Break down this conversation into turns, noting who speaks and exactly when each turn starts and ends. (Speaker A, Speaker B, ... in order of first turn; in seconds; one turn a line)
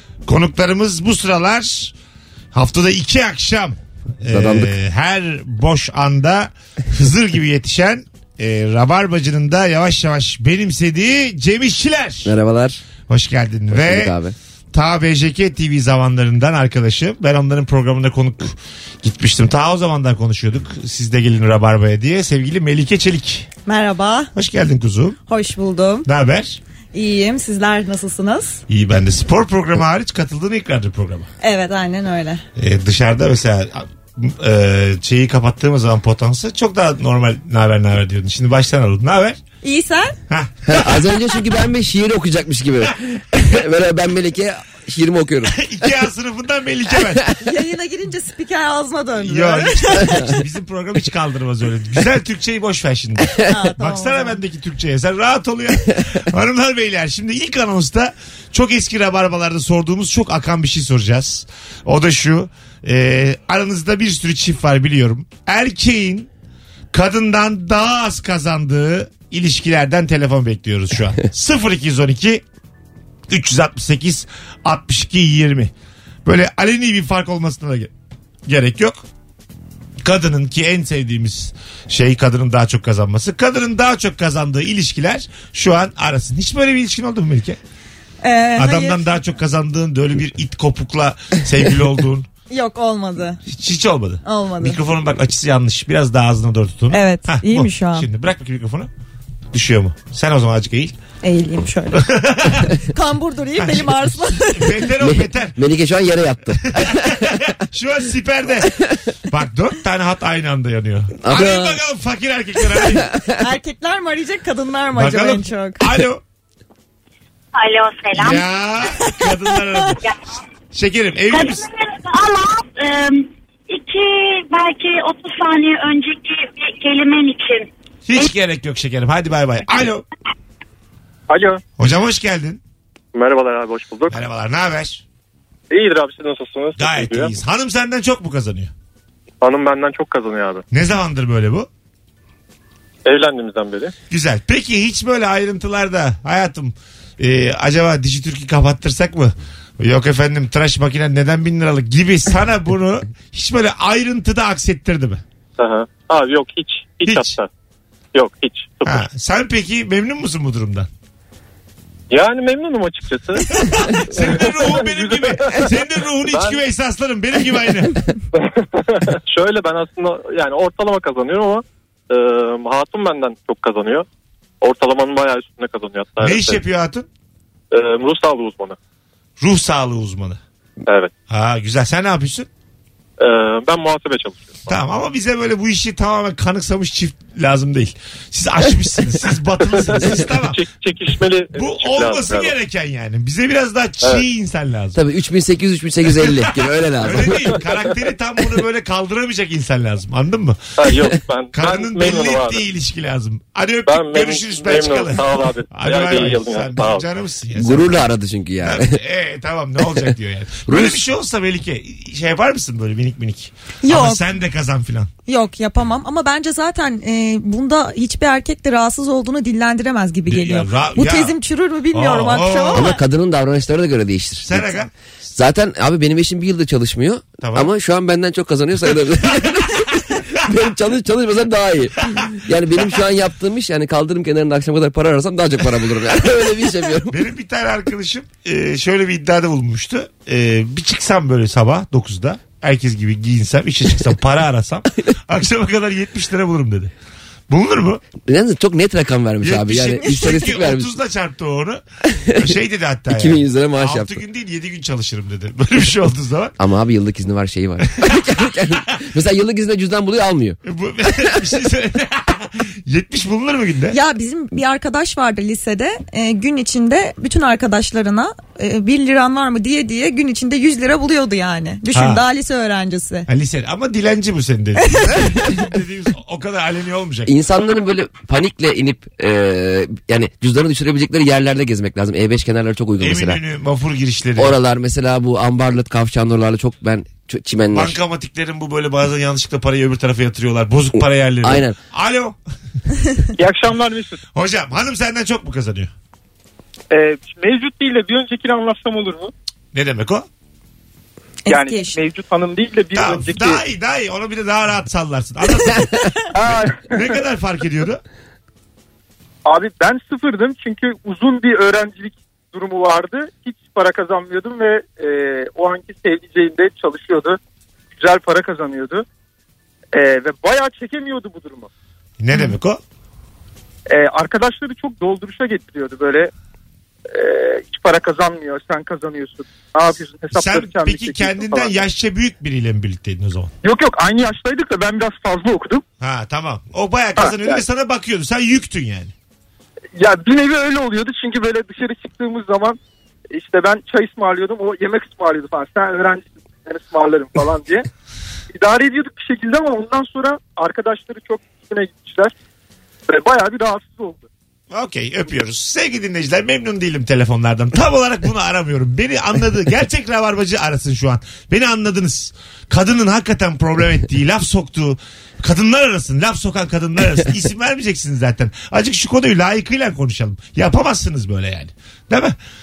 Speaker A: 0.2-1.9
Speaker A: 2.5-12.3
Speaker B: 4.3-4.7
Speaker B: 12.2-12.8
Speaker A: 13.1-14.1
Speaker B: 13.7-14.3
Speaker A: 14.7-23.5
Speaker C: 23.6-24.3
Speaker A: 24.3-25.1
Speaker C: 25.3-26.1
Speaker A: 26.1-26.6
Speaker C: 26.9-28.6
Speaker A: 28.7-31.3
Speaker C: 31.4-32.4
Speaker A: 32.6-39.4
Speaker C: 39.6-40.1
Speaker A: 40.3-40.9
Speaker B: 40.7-45.9
Speaker A: 45.5-47.3
Speaker C: 47.4-50.4
Speaker A: 49.2-66.3
Speaker C: 53.4-54.4
Speaker A: 66.9-72.4
Speaker A: 73.3-75.7
Speaker A: 76.2-77.9
Speaker A: 78.5-79.0
Speaker A: 80.0-87.6
Speaker C: 88.2-89.0
Speaker A: 88.5-92.3
Speaker C: 92.5-93.4
Speaker A: 93.5-98.9
Speaker C: 94.2-94.8
Speaker C: 96.9-98.1
Speaker A: 99.5-100.9
Speaker C: 101.2-102.1
Speaker A: 101.9-102.7
Speaker C: 102.9-104.9
Speaker A: 103.6-105.5
Speaker B: 105.0-107.4
Speaker A: 106.7-108.7
Speaker A: 109.3-113.1
Speaker B: 111.2-111.8
Speaker B: 112.7-113.3
Speaker C: 113.4-115.8
Speaker A: 114.9-116.2
Speaker D: 117.5-118.5
Speaker A: 118.1-120.0
Speaker C: 119.0-119.3
Speaker A: 120.7-121.6
Speaker D: 121.3-128.3
Speaker A: 128.1-130.0
Speaker E: 131.3-131.6
Speaker A: 131.8-132.6
Speaker E: 133.1-134.2
Speaker A: 134.1-135.0
Speaker E: 135.7-137.3
Speaker A: 136.8-138.7
Speaker E: 139.4-140.6
Speaker A: 140.7-141.7
Speaker E: 143.0-143.9
Speaker A: 144.1-155.2
Speaker E: 155.6-157.5
Speaker A: 157.0-157.3
Speaker E: 158.1-159.1
Speaker A: 158.8-160.9
Speaker E: 162.1-166.6
Speaker A: 163.5-168.0
Speaker E: 168.4-174.1
Speaker E: 174.6-176.6
Speaker A: 176.2-177.1
Speaker E: 177.7-178.8
Speaker A: 179.4-180.4
Speaker E: 180.8-181.1
Speaker A: 181.3-182.5
Speaker E: 183.2-184.7
Speaker A: 184.7-190.6
Speaker E: 189.6-192.6
Speaker A: 191.5-195.0
Speaker B: 194.9-197.6
Speaker A: 196.2-200.7
Speaker E: 200.8-202.7
Speaker A: 201.5-208.0
Speaker E: 203.8-207.1
Speaker B: 207.6-209.0
Speaker A: 208.6-215.1
Speaker B: 210.7-211.0
Speaker C: 213.8-214.2
Speaker C: 215.3-223.0
Speaker A: 220.3-221.3
Speaker A: 221.9-222.9
Speaker B: 222.7-224.8
Speaker A: 224.4-224.9
Speaker B: 225.3-237.2
Speaker A: 227.4-227.7
Speaker A: 237.1-246.9
Speaker A: 247.5-248.0
Speaker B: 248.2-250.9
Speaker A: 249.4-251.8
Speaker B: 252.1-252.5
Speaker A: 252.3-256.5
Speaker B: 253.1-254.2
Speaker B: 256.6-260.6
Speaker A: 260.6-264.0
Speaker B: 261.1-261.4
Speaker C: 263.9-273.3
Speaker A: 271.9-272.2
Speaker A: 273.3-277.3
Speaker C: 274.8-275.5
Speaker B: 277.3-283.4
Speaker A: 283.0-284.6
Speaker B: 284.4-287.9
Speaker A: 287.7-292.4
Speaker B: 291.4-291.8
Speaker F: 293.4-294.2
Speaker A: 294.3-295.9
Speaker F: 296.9-299.3
Speaker A: 299.7-300.3
Speaker C: 301.4-302.0
Speaker F: 301.5-303.6
Speaker A: 302.9-306.0
Speaker F: 306.4-307.2
Speaker A: 306.9-308.0
Speaker F: 309.4-317.4
Speaker F: 317.9-319.0
Speaker F: 319.9-321.7
Speaker A: 322.2-322.8
Speaker F: 323.9-326.3
Speaker F: 327.1-331.8
Speaker A: 330.3-333.5
Speaker F: 333.6-335.8
Speaker A: 336.0-339.1
Speaker F: 337.2-337.6
Speaker F: 340.0-342.8
Speaker F: 343.3-347.9
Speaker F: 348.5-352.3
Speaker F: 353.1-354.3
Speaker A: 354.7-372.4